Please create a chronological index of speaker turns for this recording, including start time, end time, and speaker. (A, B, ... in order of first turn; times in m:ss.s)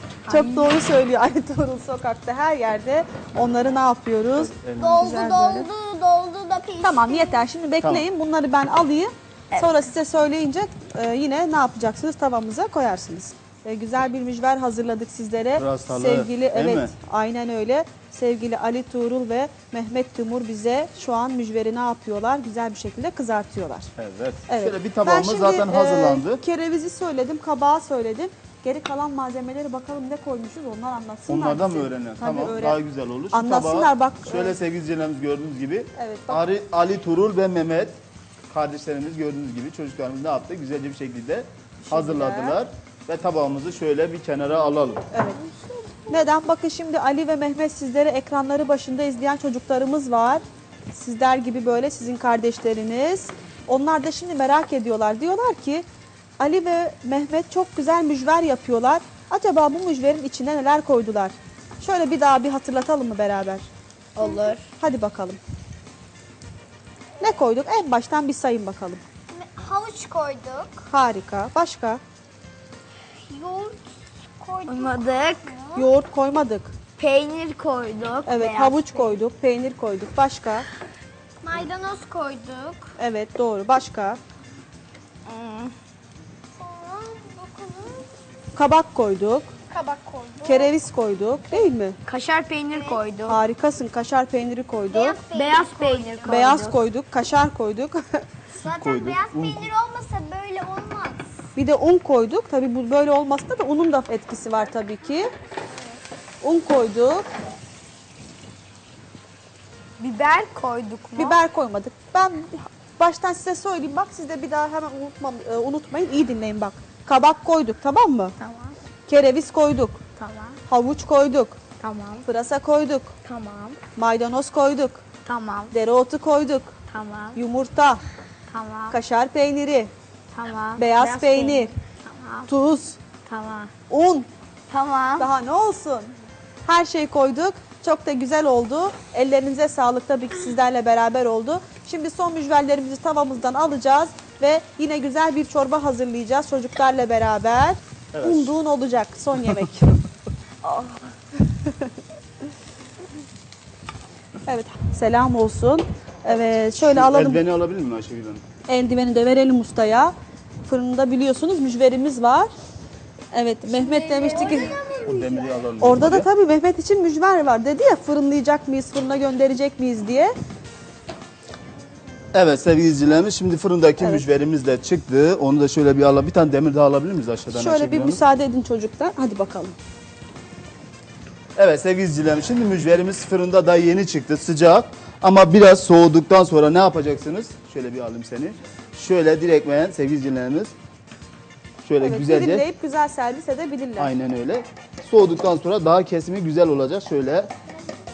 0:00.2-0:00.7 A
0:00.3-0:05.7 B
0:04.3-0:05.1 C
0:04.8-0:07.4 D
0:06.8-0:23.9 B
0:15.6-0:16.9 C
0:24.0-0:26.4 C
0:24.5-0:32.8 B
0:31.3-0:38.0 C
0:33.3-0:34.6 B
0:36.0-0:36.4 B
0:38.5-0:45.0 C
0:41.8-0:42.6 B
0:45.1-0:45.4 B
0:46.1-0:55.8 B
0:56.4-1:03.7 B
1:04.2-1:04.7 A
1:04.2-1:04.6 D
1:04.8-1:05.4 B
1:07.2-1:09.0 B
1:09.3-1:10.8 D
1:10.9-1:12.0 B
1:13.2-1:13.8 D
1:14.4-1:15.9 D
1:14.7-1:15.5 A
1:15.7-1:16.7 B
1:17.0-1:19.0 A
1:18.2-1:20.7 B
1:21.4-1:22.9 D
1:23.0-1:24.2 B
1:25.2-1:25.7 A
1:26.6-1:28.1 D
1:28.5-1:29.5 B
1:29.7-1:30.7 D
1:30.4-1:32.0 B
1:32.0-1:33.4 A
1:32.7-1:33.0 D
1:33.3-1:35.2 B
1:34.9-1:36.5 D
1:35.3-1:36.8 A
1:36.2-1:38.2 B
1:38.5-1:41.3 D
1:38.6-1:39.6 C
1:41.5-1:45.3 B
1:45.7-1:46.0 D
1:46.4-1:47.3 B
1:50.0-1:51.4 A
1:51.2-1:58.3 B
1:58.4-1:58.8 A
1:59.1-2:00.0 B
2:00.2-2:00.6 A
2:00.7-2:01.6 B
2:01.8-2:02.2 A
2:02.2-2:03.1 B
2:03.2-2:03.8 A
2:03.9-2:05.0 B
2:05.2-2:05.7 A
2:05.7-2:06.7 B
2:06.9-2:07.4 A
2:07.3-2:08.0 B
2:08.5-2:09.0 A
2:08.9-2:09.9 B
2:10.3-2:12.5 A
2:10.8-2:11.7 B
2:12.5-2:13.0 B
2:13.2-2:13.7 A
2:13.9-2:14.3 B
2:14.7-2:15.3 A
2:15.2-2:29.9 B
2:28.1-2:28.6 C
2:31.5-2:31.7 B
2:34.4-2:37.4 B
2:36.8-2:38.4 C
2:38.7-2:40.1 B
2:40.6-2:42.5 B
2:43.3-2:44.7 B
2:43.7-2:45.6 D
2:44.5-2:46.3 C
2:45.8-2:50.3 B
2:52.3-2:58.2 C
2:54.0-2:54.2 B
2:57.5-2:59.8 B
3:01.6-3:10.7 C
3:11.8-3:12.6 C
3:12.0-3:14.1 B
3:14.0-3:17.5 C